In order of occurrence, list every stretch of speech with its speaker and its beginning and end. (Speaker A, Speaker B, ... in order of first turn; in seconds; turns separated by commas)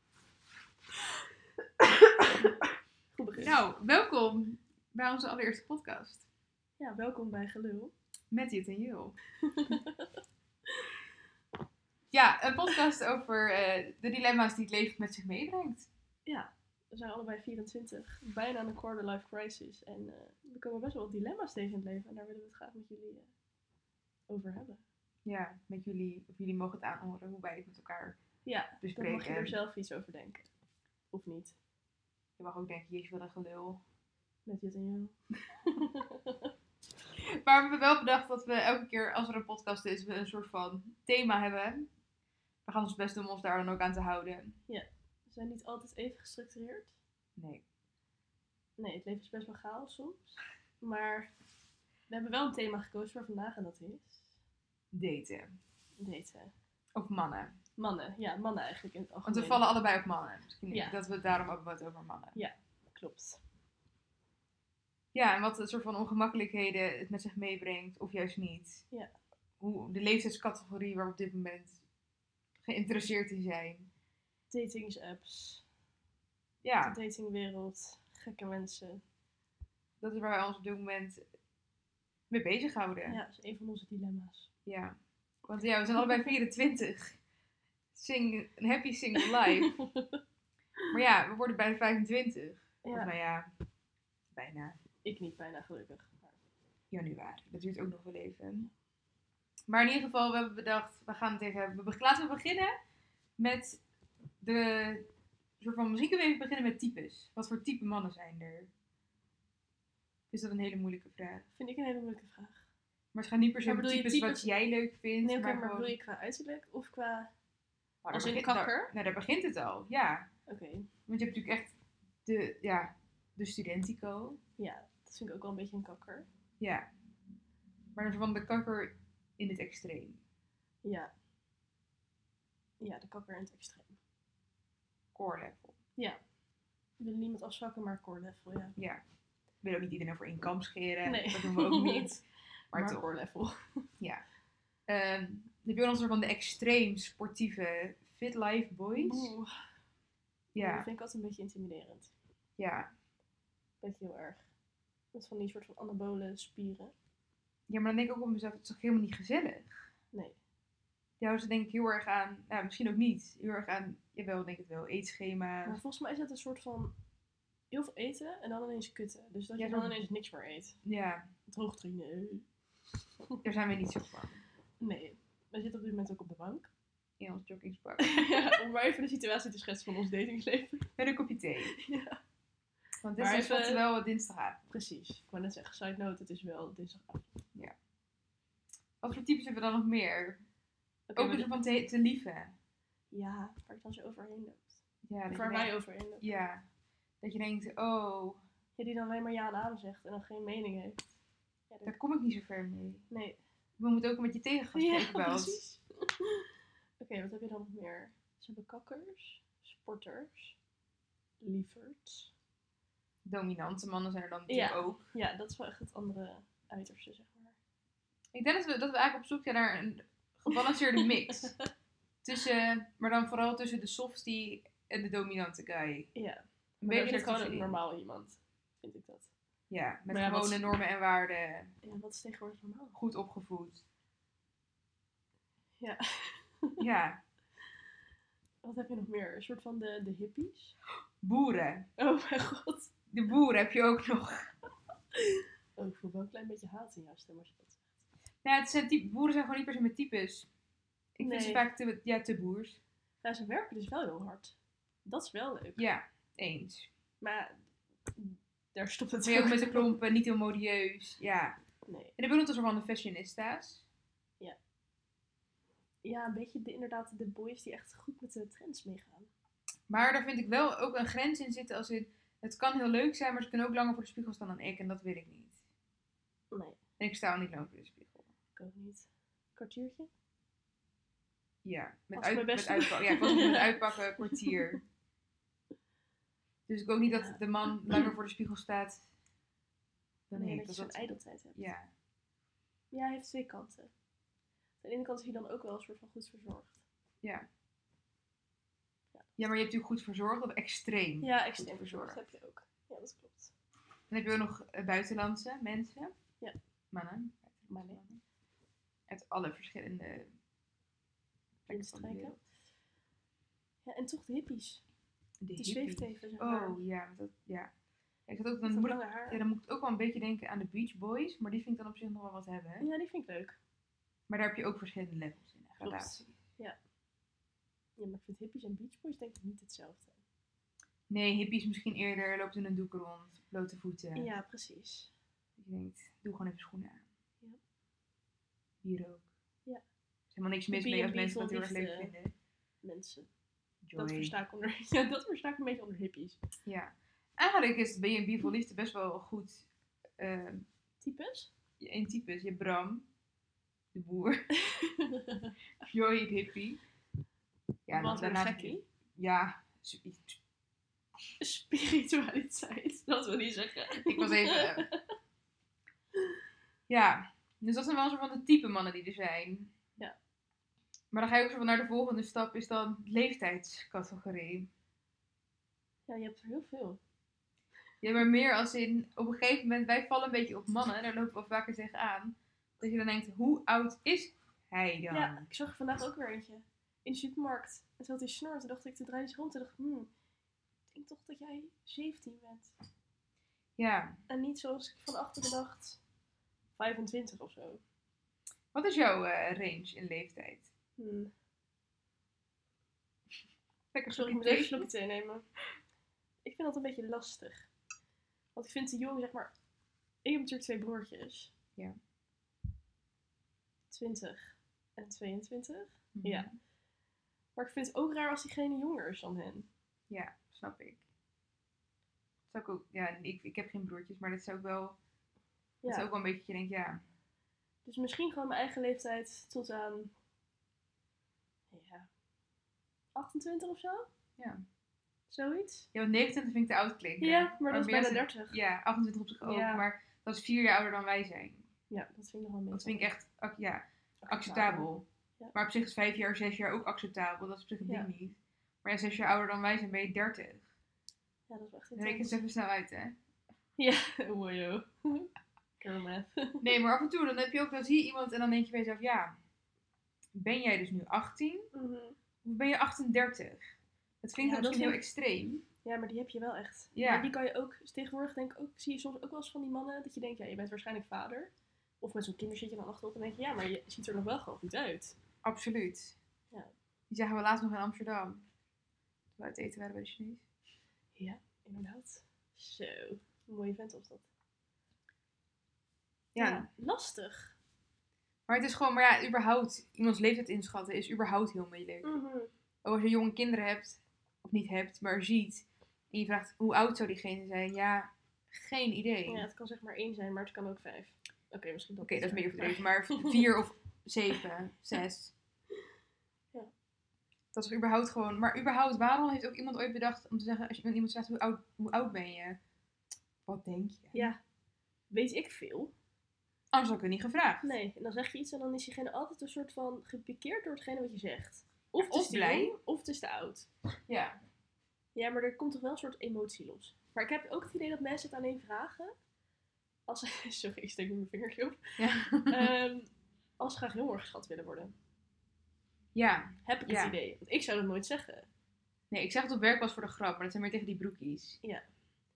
Speaker A: 1.8-2.5, Speaker A: 3.1-3.5, Speaker B: 3.4-6.2, Speaker A: 6.8-7.9, Speaker B: 8.3-9.2, Speaker A: 9.4-10.1, Speaker A: 10.7-10.9, Speaker B: 12.1-15.9, Speaker A: 16.3-23.3, Speaker A: 24.3-24.8, Speaker B: 25.2-28.2, Speaker A: 28.4-30.5, Speaker B: 28.8-29.6, Speaker A: 31.1-31.6, Speaker B: 32.4-33.8, Speaker A: 34.5-36.5, Speaker B: 37.2-41.9, Speaker B: 42.6-44.6, Speaker A: 44.7-47.0, Speaker B: 47.4-47.6, Speaker A: 48.8-51.3, Speaker A: 52.1-54.2, Speaker B: 54.9-55.6, Speaker A: 56.0-56.5, Speaker B: 57.0-57.6, Speaker A: 57.8-59.6, Speaker B: 59.3-62.4, Speaker A: 60.7-61.0, Speaker A: 62.4-63.4, Speaker B: 65.1-68.8, Speaker B: 69.6-71.8, Speaker B: 72.6-73.9, Speaker A: 74.5-75.6, Speaker B: 76.6-77.0, Speaker A: 76.8-79.0, Speaker B: 80.0-81.2, Speaker B: 82.3-83.2, Speaker A: 83.0-84.5, Speaker B: 84.7-87.2, Speaker B: 87.9-89.8, Speaker A: 89.4-90.2, Speaker B: 90.9-93.5, Speaker A: 92.8-93.1, Speaker B: 94.3-94.8, Speaker A: 95.0-96.4, Speaker B: 96.9-98.7, Speaker B: 99.7-102.7, Speaker B: 103.4-103.8, Speaker B: 104.4-105.1, Speaker B: 105.6-108.7, Speaker B: 110.3-111.5, Speaker A: 111.6-112.6, Speaker B: 113.1-115.9, Speaker A: 113.6-114.5, Speaker A: 115.2-117.3, Speaker B: 118.0-120.3, Speaker A: 118.1-118.9, Speaker A: 120.5-120.9, Speaker B: 121.1-121.7, Speaker B: 122.2-124.4, Speaker A: 124.6-126.3, Speaker B: 126.6-126.9, Speaker B: 128.0-130.2, Speaker A: 130.8-131.1, Speaker A: 132.8-134.0, Speaker B: 135.1-135.8, Speaker A: 137.0-138.8, Speaker B: 138.8-139.0, Speaker B: 139.6-142.2, Speaker A: 141.0-142.2, Speaker A: 142.7-143.9, Speaker B: 142.7-143.1, Speaker B: 144.9-149.3, Speaker A: 149.0-149.5, Speaker B: 150.5-150.9, Speaker A: 150.6-152.1, Speaker B: 152.6-152.9, Speaker A: 153.8-154.4, Speaker A: 155.1-156.9, Speaker B: 157.7-159.8, Speaker B: 161.2-165.8, Speaker A: 165.7-166.9, Speaker A: 167.7-170.8, Speaker B: 169.6-169.9, Speaker B: 170.8-171.3, Speaker A: 171.5-172.5, Speaker B: 173.4-174.4, Speaker A: 174.8-176.7, Speaker B: 177.2-178.3, Speaker A: 178.0-180.9, Speaker B: 181.0-181.7, Speaker A: 181.7-182.2, Speaker B: 183.0-184.6, Speaker A: 183.2-183.8, Speaker A: 184.7-187.3, Speaker B: 189.0-190.4, Speaker A: 191.1-191.5, Speaker B: 191.2-192.6, Speaker A: 193.1-196.3, Speaker B: 195.1-196.7, Speaker B: 197.2-198.4, Speaker A: 198.8-201.0, Speaker A: 201.7-201.9, Speaker B: 201.8-203.1, Speaker A: 203.1-203.4, Speaker B: 203.8-205.6, Speaker A: 204.7-206.5, Speaker A: 207.0-210.6, Speaker A: 211.4-212.3, Speaker B: 213.2-215.1, Speaker A: 214.5-217.6, Speaker B: 218.3-221.5, Speaker A: 221.3-221.7, Speaker B: 222.2-226.1, Speaker A: 226.2-229.3, Speaker B: 226.8-227.8, Speaker B: 229.7-231.7, Speaker A: 230.1-230.6, Speaker A: 231.8-233.0, Speaker B: 233.0-233.8, Speaker A: 235.8-236.8, Speaker B: 236.8-237.2, Speaker A: 238.6-240.8, Speaker B: 241.2-241.9, Speaker A: 242.0-242.9, Speaker B: 243.1-244.5, Speaker A: 245.1-247.8, Speaker B: 248.4-250.5, Speaker B: 251.2-252.8, Speaker A: 251.2-251.7, Speaker A: 253.2-255.8, Speaker B: 255.8-256.9, Speaker A: 257.2-259.9, Speaker B: 259.2-261.6, Speaker A: 261.9-262.1, Speaker B: 262.2-263.8, Speaker A: 266.0-269.3, Speaker B: 269.9-275.6, Speaker A: 276.5-276.8, Speaker B: 277.0-278.3, Speaker A: 278.6-280.1, Speaker B: 281.6-284.8, Speaker A: 282.1-284.6, Speaker B: 286.7-289.0, Speaker A: 287.1-287.4, Speaker B: 290.3-291.9, Speaker A: 290.4-291.7, Speaker A: 292.9-293.9, Speaker A: 294.8-296.8, Speaker B: 299.4-302.2, Speaker A: 301.2-303.5, Speaker B: 304.1-306.1, Speaker B: 306.9-308.2, Speaker A: 307.7-308.0, Speaker B: 309.1-310.3, Speaker B: 311.7-312.4, Speaker A: 311.7-312.4, Speaker A: 313.9-314.8, Speaker B: 315.4-317.7, Speaker A: 315.6-316.8, Speaker B: 318.3-322.9, Speaker A: 318.6-319.4, Speaker A: 322.8-323.6, Speaker B: 324.3-326.3, Speaker A: 325.8-326.8, Speaker A: 328.0-330.2, Speaker B: 331.1-334.3, Speaker A: 334.2-335.1, Speaker B: 335.6-337.0, Speaker B: 338.8-339.3, Speaker B: 340.3-342.3, Speaker A: 340.7-342.1, Speaker A: 342.8-343.3, Speaker B: 343.8-344.3, Speaker A: 344.0-346.4, Speaker B: 346.7-349.7, Speaker B: 350.2-350.6, Speaker A: 351.0-351.5, Speaker B: 351.8-353.1, Speaker B: 353.9-354.5, Speaker A: 354.5-355.5, Speaker B: 355.9-356.8, Speaker B: 357.9-360.4, Speaker A: 357.9-358.9, Speaker A: 361.4-365.1, Speaker B: 364.0-364.9, Speaker B: 366.9-369.8, Speaker B: 371.1-374.7, Speaker A: 376.1-377.0, Speaker B: 378.0-385.5, Speaker A: 385.1-390.1, Speaker A: 390.9-392.7, Speaker B: 393.8-394.2, Speaker A: 394.3-396.0, Speaker A: 396.8-397.8, Speaker B: 398.7-400.7, Speaker A: 401.0-401.3, Speaker B: 403.9-404.9, Speaker A: 404.1-405.5, Speaker A: 406.4-407.7, Speaker A: 408.6-409.5, Speaker A: 410.2-411.5, Speaker A: 413.9-416.5, Speaker B: 416.1-416.6, Speaker A: 417.6-419.7, Speaker B: 420.1-421.0, Speaker B: 422.5-425.0, Speaker A: 425.8-426.1, Speaker B: 425.9-427.0, Speaker A: 427.9-430.1, Speaker A: 431.7-432.1, Speaker A: 433.1-434.1, Speaker A: 435.3-435.9, Speaker B: 435.9-441.7, Speaker A: 437.2-438.6, Speaker A: 439.4-439.8, Speaker A: 441.9-443.1, Speaker B: 442.7-450.6, Speaker A: 444.2-444.9, Speaker A: 451.5-452.4, Speaker B: 452.0-453.2, Speaker A: 453.8-456.6, Speaker B: 456.6-459.3, Speaker B: 460.4-461.7, Speaker A: 461.7-462.2, Speaker B: 462.4-465.6, Speaker A: 464.4-465.0, Speaker A: 465.8-475.2, Speaker B: 466.9-467.3, Speaker B: 475.4-476.2, Speaker B: 477.1-478.4, Speaker B: 479.4-480.4, Speaker A: 481.2-484.3, Speaker B: 486.4-486.7, Speaker A: 486.4-487.6, Speaker B: 488.5-492.1, Speaker A: 492.0-492.5, Speaker B: 492.8-499.5, Speaker A: 499.3-503.5, Speaker B: 502.0-505.3, Speaker B: 507.5-512.6, Speaker B: 513.5-514.3, Speaker A: 514.1-514.4, Speaker A: 515.1-515.9, Speaker B: 516.7-517.7, Speaker A: 517.6-523.7, Speaker B: 522.0-522.8, Speaker B: 524.1-524.4, Speaker A: 525.1-529.1, Speaker A: 530.1-532.0, Speaker B: 532.0-532.7, Speaker A: 532.5-534.9, Speaker B: 536.1-537.2, Speaker A: 536.6-538.5, Speaker B: 539.1-541.6